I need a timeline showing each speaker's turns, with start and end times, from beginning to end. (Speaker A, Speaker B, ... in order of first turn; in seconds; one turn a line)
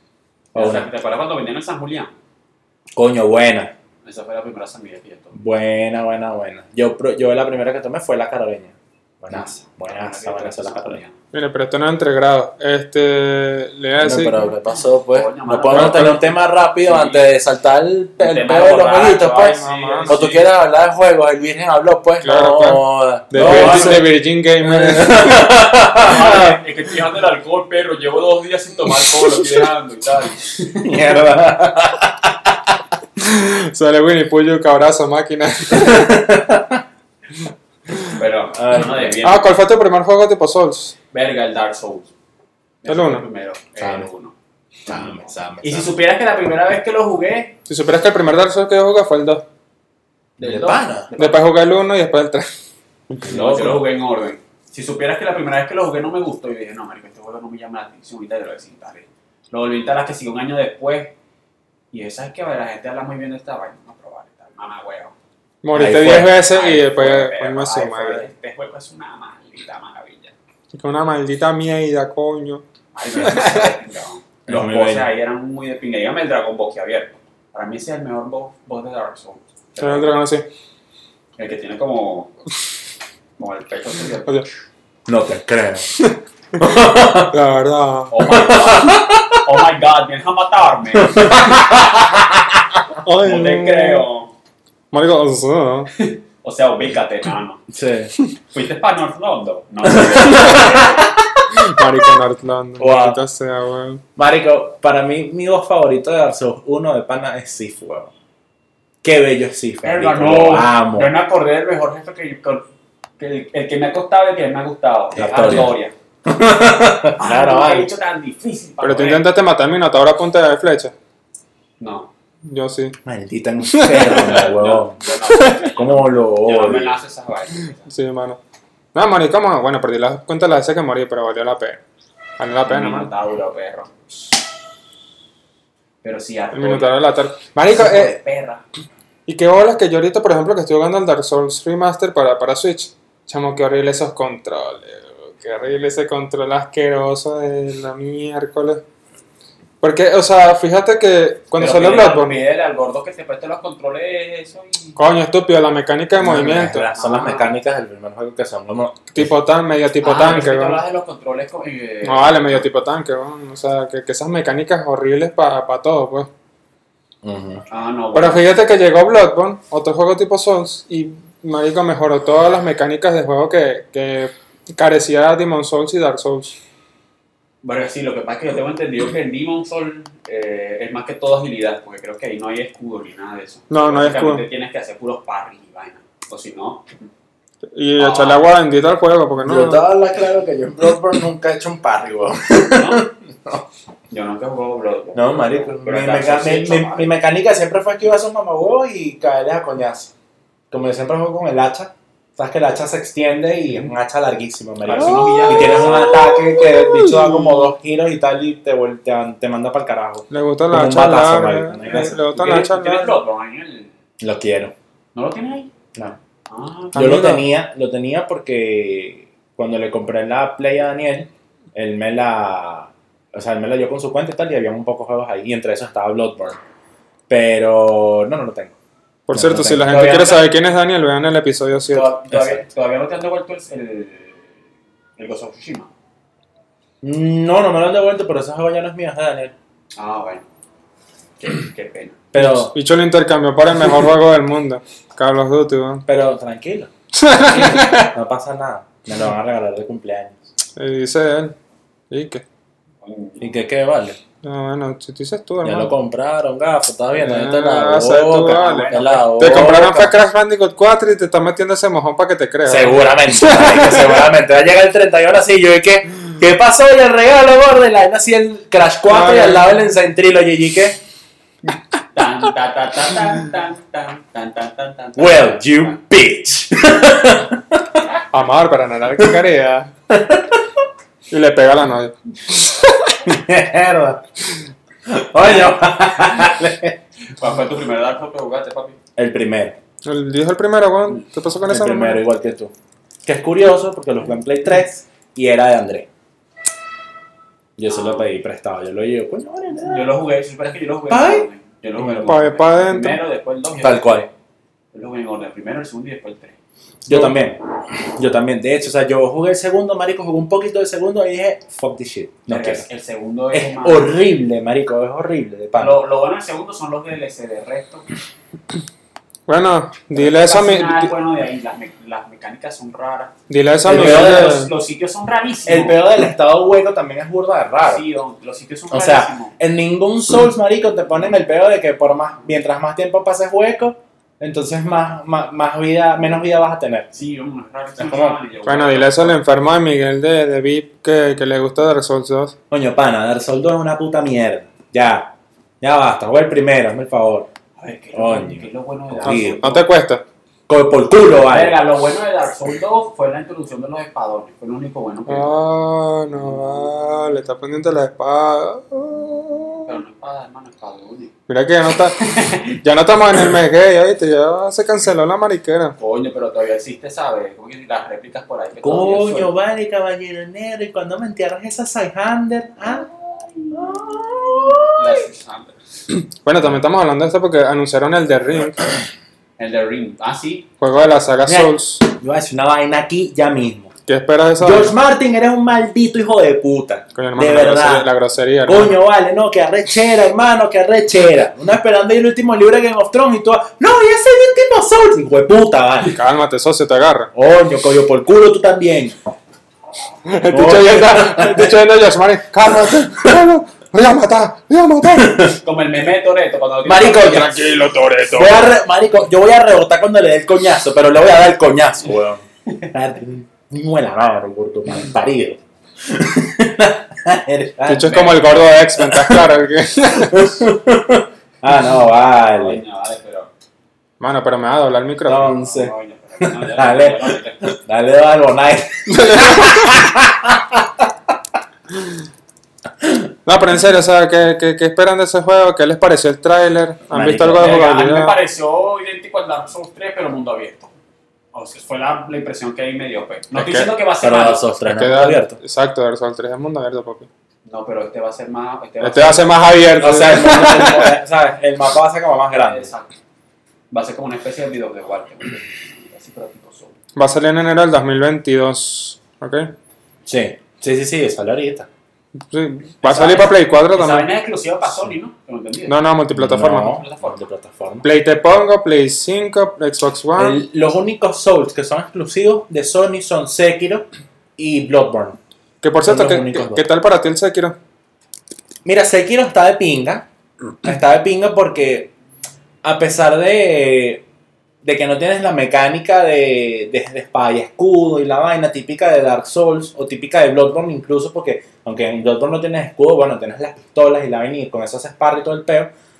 Speaker A: 0.5-2.1
Speaker B: 0.5-0.9
Speaker B: 2.9-3.7
Speaker A: 4.0-5.3
Speaker B: 5.3-11.0
Speaker A: 9.3-11.1
Speaker C: 11.3-14.5
Speaker B: 14.0-26.6
Speaker A: 15.1-17.3
Speaker C: 15.7-16.2
Speaker A: 18.2-20.4
Speaker C: 19.4-20.3
Speaker C: 22.2-25.6
Speaker A: 23.4-24.1
Speaker A: 25.9-31.1
Speaker B: 30.8-32.7
Speaker C: 33.2-36.4
Speaker B: 35.7-36.8
Speaker A: 38.1-39.5
Speaker B: 38.5-39.1
Speaker C: 39.2-40.9
Speaker A: 41.1-42.1
Speaker A: 42.8-44.3
Speaker C: 42.9-43.2
Speaker B: 43.8-44.1
Speaker B: 44.9-45.9
Speaker A: 44.9-47.5
Speaker C: 47.7-49.4
Speaker A: 50.4-51.4
Speaker B: 50.4-51.1
Speaker C: 51.2-52.5
Speaker B: 53.2-53.8
Speaker A: 53.2-61.1
Speaker A: 61.9-65.1
Speaker C: 65.6-68.3
Speaker B: 65.7-66.4
Speaker A: 66.5-70.3
Speaker C: 70.7-72.6
Speaker A: 72.9-80.2
Speaker C: 73.2-73.7
Speaker B: 74.5-75.1
Speaker C: 79.8-80.5
Speaker A: 81.4-82.3
Speaker A: 83.4-84.3
Speaker B: 85.0-85.9
Speaker B: 86.6-87.3
Speaker C: 87.3-88.1
Speaker A: 88.1-92.1
Speaker B: 88.2-89.4
Speaker B: 91.0-92.8
Speaker C: 93.0-94.0
Speaker A: 93.2-94.3
Speaker C: 94.9-95.9
Speaker A: 95.9-97.6
Speaker B: 97.7-98.1
Speaker A: 98.5-101.1
Speaker B: 99.8-101.9
Speaker C: 101.5-104.0
Speaker B: 102.8-103.2
Speaker B: 104.2-108.1
Speaker B: 109.0-111.1
Speaker A: 109.8-112.7
Speaker A: 113.2-115.9
Speaker B: 115.1-117.9
Speaker A: 117.2-119.3
Speaker C: 118.8-120.9
Speaker A: 121.8-122.1
Speaker C: 122.5-123.0
Speaker B: 123.0-127.0
Speaker C: 123.6-124.4
Speaker A: 124.2-127.9
Speaker C: 127.9-128.4
Speaker C: 128.9-131.8
Speaker C: 132.4-133.1
Speaker A: 132.6-133.9
Speaker A: 136.0-136.9
Speaker C: 136.5-138.1
Speaker A: 137.7-138.6
Speaker C: 139.3-148.8
Speaker C: 149.8-152.4
Speaker A: 151.6-155.0
Speaker C: 154.9-156.9
Speaker B: 156.2-159.3
Speaker A: 156.9-157.5
Speaker C: 159.1-160.8
Speaker A: 160.0-162.6
Speaker C: 162.0-166.3
Speaker B: 167.2-167.6
Speaker A: 167.7-168.4
Speaker C: 168.1-176.5
Speaker A: 177.6-186.9
Speaker C: 183.7-184.4
Speaker C: 187.7-189.8
Speaker A: 188.0-188.4
Speaker B: 189.4-193.6
Speaker A: 192.7-193.0
Speaker A: 194.1-197.1
Speaker B: 195.1-200.1
Speaker B: 200.7-212.2
Speaker A: 204.8-206.2
Speaker C: 205.2-207.7
Speaker C: 210.3-213.2
Speaker A: 211.9-213.9
Speaker B: 214.2-214.7
Speaker A: 215.1-215.7
Speaker A: 216.5-217.0
Speaker C: 216.9-217.4
Speaker B: 216.9-226.6
Speaker B: 227.3-228.7
Speaker C: 229.3-232.1
Speaker B: 229.3-230.2
Speaker A: 229.9-230.4
Speaker A: 231.9-234.5
Speaker B: 232.3-232.6
Speaker A: 235.2-235.9
Speaker B: 237.0-239.5
Speaker A: 239.9-240.4
Speaker A: 241.4-242.2
Speaker B: 242.3-242.7
Speaker C: 242.3-246.0
Speaker B: 246.1-250.3
Speaker C: 247.1-248.1
Speaker C: 250.8-251.6
Speaker C: 252.1-252.4
Speaker A: 253.0-253.6
Speaker B: 253.4-254.2
Speaker C: 254.4-255.9
Speaker B: 255.6-260.2
Speaker C: 257.1-264.2
Speaker A: 258.4-259.7
Speaker B: 262.6-271.0
Speaker C: 269.1-269.7
Speaker A: 272.1-276.0
Speaker B: 275.1-278.0
Speaker C: 278.3-279.9
Speaker B: 280.1-280.6
Speaker C: 281.3-282.9
Speaker B: 283.2-284.2
Speaker B: 285.1-287.0
Speaker A: 287.4-289.0
Speaker B: 289.1-289.8
Speaker C: 290.0-292.2
Speaker B: 291.6-292.7
Speaker B: 293.2-296.1
Speaker B: 297.8-300.1
Speaker A: 297.9-298.3
Speaker A: 299.8-304.2
Speaker B: 301.1-301.4
Speaker C: 302.2-303.2
Speaker B: 303.8-304.3
Speaker A: 304.9-306.6
Speaker B: 307.1-312.9
Speaker A: 312.5-314.1
Speaker B: 313.5-316.0
Speaker A: 315.8-318.1
Speaker C: 319.5-321.1
Speaker A: 320.1-323.3
Speaker C: 323.5-324.7
Speaker B: 323.8-324.6
Speaker A: 323.8-326.0
Speaker B: 325.7-328.0
Speaker A: 327.8-329.5
Speaker B: 328.9-337.1
Speaker A: 337.1-339.4
Speaker B: 338.0-338.4
Speaker C: 338.6-342.5
Speaker B: 342.7-347.5
Speaker A: 347.8-349.9
Speaker B: 348.1-349.6
Speaker C: 349.2-350.2
Speaker B: 350.7-351.8
Speaker A: 351.4-355.5
Speaker C: 355.3-359.9
Speaker A: 356.5-356.8
Speaker A: 359.8-361.3
Speaker C: 361.5-365.9
Speaker A: 362.2-362.8
Speaker A: 366.0-369.5
Speaker B: 368.8-373.1
Speaker A: 373.4-374.0
Speaker B: 373.7-375.2
Speaker A: 374.9-375.8
Speaker C: 376.4-378.9
Speaker A: 379.6-380.6
Speaker C: 380.8-382.0
Speaker B: 381.4-383.9
Speaker C: 384.1-384.9
Speaker B: 384.6-388.1
Speaker C: 387.1-389.0
Speaker B: 388.6-396.2
Speaker C: 396.1-397.3
Speaker B: 397.3-399.1
Speaker C: 400.2-405.5
Speaker B: 400.5-401.8
Speaker B: 405.2-405.5
Speaker A: 405.5-407.6
Speaker B: 406.8-407.6
Speaker C: 407.2-408.7
Speaker B: 408.3-419.5
Speaker C: 417.9-420.5
Speaker A: 418.1-418.4
Speaker B: 420.1-422.8
Speaker A: 422.5-423.5
Speaker C: 424.2-425.5
Speaker B: 425.2-431.1
Speaker A: 425.6-427.7
Speaker C: 429.1-430.0
Speaker B: 433.0-433.3
Speaker C: 433.4-438.4
Speaker B: 437.1-437.8
Speaker A: 437.5-440.9
Speaker A: 441.5-444.7
Speaker C: 443.5-443.9
Speaker B: 444.2-445.6
Speaker C: 444.8-447.3
Speaker A: 447.6-449.5
Speaker C: 449.0-451.1
Speaker B: 450.0-452.9
Speaker A: 452.5-453.1
Speaker A: 453.9-456.9
Speaker C: 457.1-459.7
Speaker B: 460.2-461.9
Speaker C: 462.5-464.3
Speaker A: 463.0-465.9
Speaker C: 465.9-467.0
Speaker B: 466.3-468.1
Speaker A: 466.8-467.4
Speaker C: 468.0-470.6
Speaker B: 470.4-475.4
Speaker C: 475.8-477.8
Speaker B: 476.0-476.8
Speaker B: 478.8-480.3
Speaker B: 480.8-482.1
Speaker B: 482.8-484.2
Speaker B: 484.8-495.9